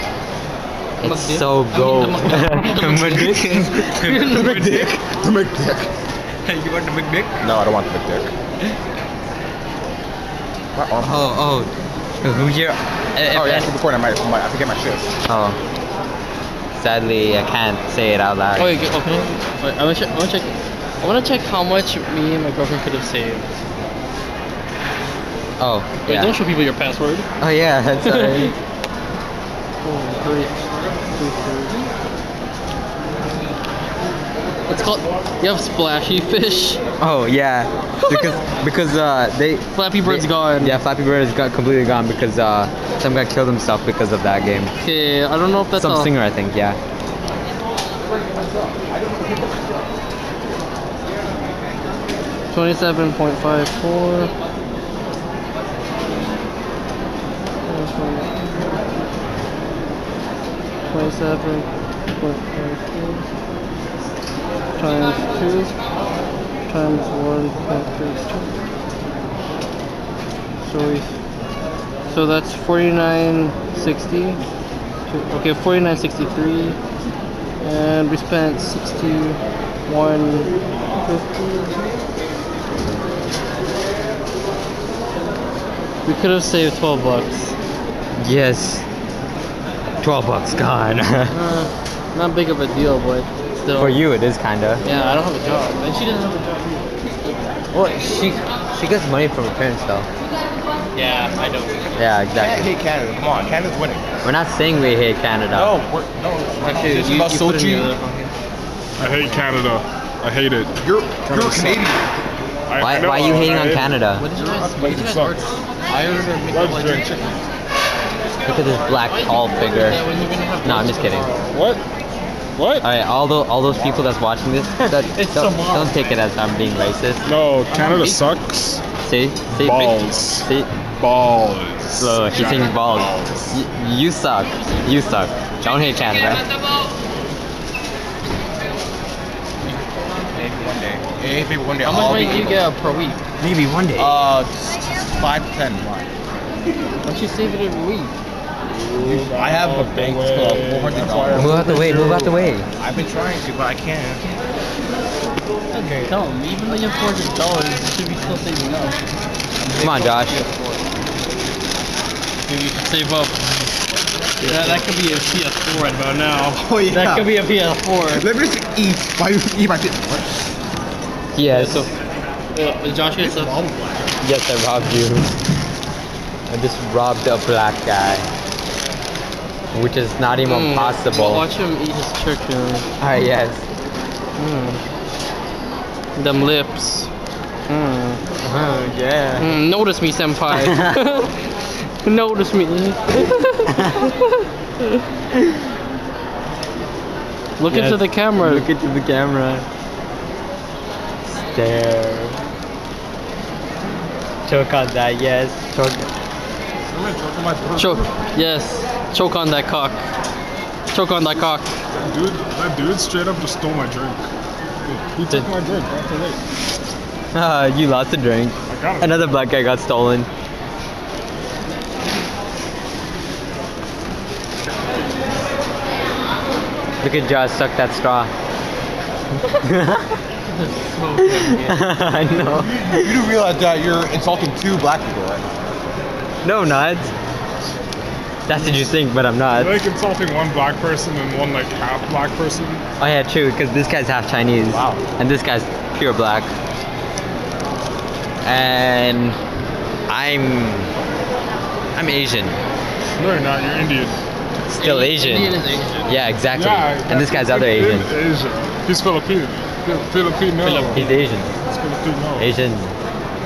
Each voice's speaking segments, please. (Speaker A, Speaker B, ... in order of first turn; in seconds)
Speaker A: 1.0-4.2, 6.4-7.5, 11.0-11.7, 12.2-13.7, 15.2-15.6, 16.8-18.8, 25.6-26.3, 27.4-28.5, 37.0-44.7, 45.8-46.8, 88.2-88.8, 90.0-91.3, 93.7-94.8, 97.7-100.1, 102.0-102.7, 104.2-105.8, 112.8-114.2, 118.4-120.0, 120.6-121.3, 122.8-127.2, 129.0-130.7, 132.0-136.4, 143.4-144.2, 151.3-152.7, 159.8-160.4, 164.4-164.9, 166.5-167.3, 171.3-171.9, 174.2-175.4, 176.5-178.3, 179.7-181.4, 183.0-183.6, 188.4-189.5, 190.5-191.0, 193.8-194.1, 197.7-199.7, 201.3-202.4, 204.4-206.1, 217.3-220.3, 227.0-228.3, 229.6-230.2, 231.6-233.1, 236.4-237.1, 238.4-239.8, 243.0-246.5, 248.4-249.4, 250.1-250.9, 251.9-252.6, 254.7-255.5, 256.1-258.1, 260.8-261.5, 262.4-262.9
Speaker B: 1.0-4.9, 18.6-23.5, 26.0-27.3, 28.0-28.5, 29.8-31.9, 34.7-36.8, 38.0-38.4, 39.7-40.8, 44.8-46.1, 52.5-54.3, 57.6-58.8, 60.9-63.3, 64.8-65.8, 66.7-68.5, 70.6-71.2, 72.0-74.4, 75.1-76.8, 77.6-81.8, 86.0-87.5, 91.3-94.0, 94.8-96.8, 100.9-101.9, 106.6-108.3, 114.2-117.1, 119.1-121.5, 125.1-125.9, 135.7-136.6, 141.8-143.2, 147.0-148.1, 155.7-159.0, 159.6-160.8, 162.4-163.4, 164.4-168.2, 171.5-171.9, 172.5-173.7, 180.4-182.9, 184.4-184.8, 186.2-187.1, 187.7-188.2, 189.4-194.2, 197.6-198.7, 207.8-210.0, 210.9-211.7, 230.5-231.9, 254.7-256.1, 260.6-261.0
Speaker C: 4.1-5.9, 7.4-8.3, 10.7-11.3, 13.3-15.1, 102.3-104.1, 105.5-107.9, 110.8-112.1, 127.7-128.2, 140.3-142.6, 143.9-146.1, 149.0-151.6, 152.8-154.2, 168.1-170.3, 173.2-174.2, 232.4-235.5, 244.7-245.0
Speaker D: 109.0-111.9, 112.7-115.4, 116.5-117.3, 121.5-121.8, 122.5-122.8, 127.2-128.8, 129.5-133.6, 148.9-152.4, 206.9-208.1, 211.9-214.3, 214.8-216.4, 218.7-219.4, 239.5-242.8, 253.2-254.2, 256.5-262.5